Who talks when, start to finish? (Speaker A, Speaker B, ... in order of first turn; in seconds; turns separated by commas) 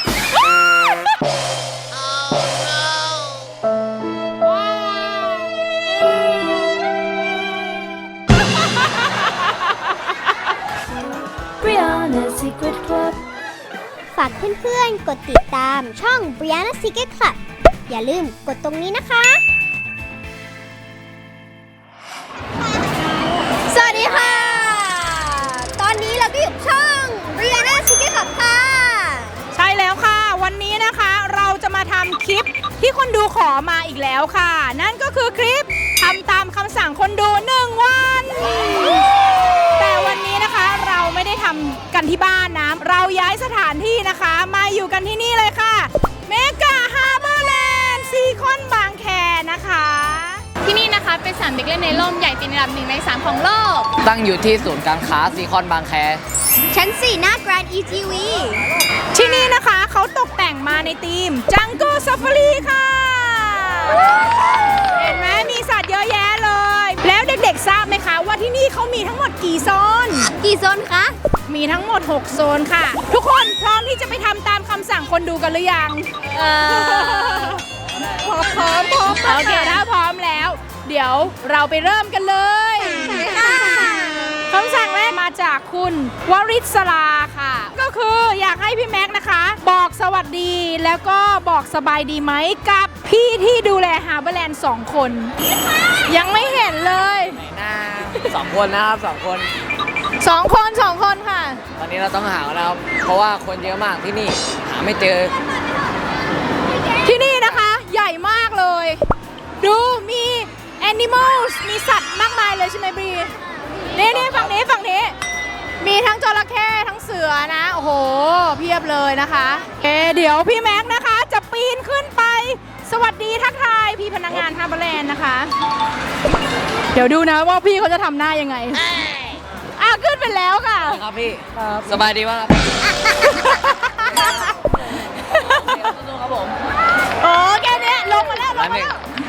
Speaker A: 2.3-3.1, Speaker B: 11.6-13.1, Speaker B: 14.2-19.4, Speaker B: 23.5-29.4, Speaker C: 29.5-39.0, Speaker C: 39.7-50.4, Speaker A: 50.6-53.9, Speaker D: 54.0-56.2, Speaker B: 56.7-58.7, Speaker C: 59.1-64.1, Speaker C: 64.9-70.3, Speaker B: 70.4-71.1, Speaker C: 71.5-77.6, Speaker B: 76.2-77.6, Speaker B: 78.2-79.8, Speaker C: 78.4-83.4, Speaker B: 83.1-84.5, Speaker C: 84.5-95.3, Speaker C: 96.0-97.4, Speaker D: 97.4-99.5, Speaker C: 100.2-101.6, Speaker D: 101.8-105.4, Speaker C: 107.0-109.0, Speaker C: 109.6-113.3, Speaker C: 113.9-115.1, Speaker D: 114.0-114.5, Speaker C: 115.8-125.5, Speaker C: 126.9-128.8, Speaker C: 129.8-131.0, Speaker D: 130.9-132.6, Speaker C: 133.4-133.9, Speaker D: 135.4-136.6, Speaker C: 137.2-139.0, Speaker D: 138.5-138.9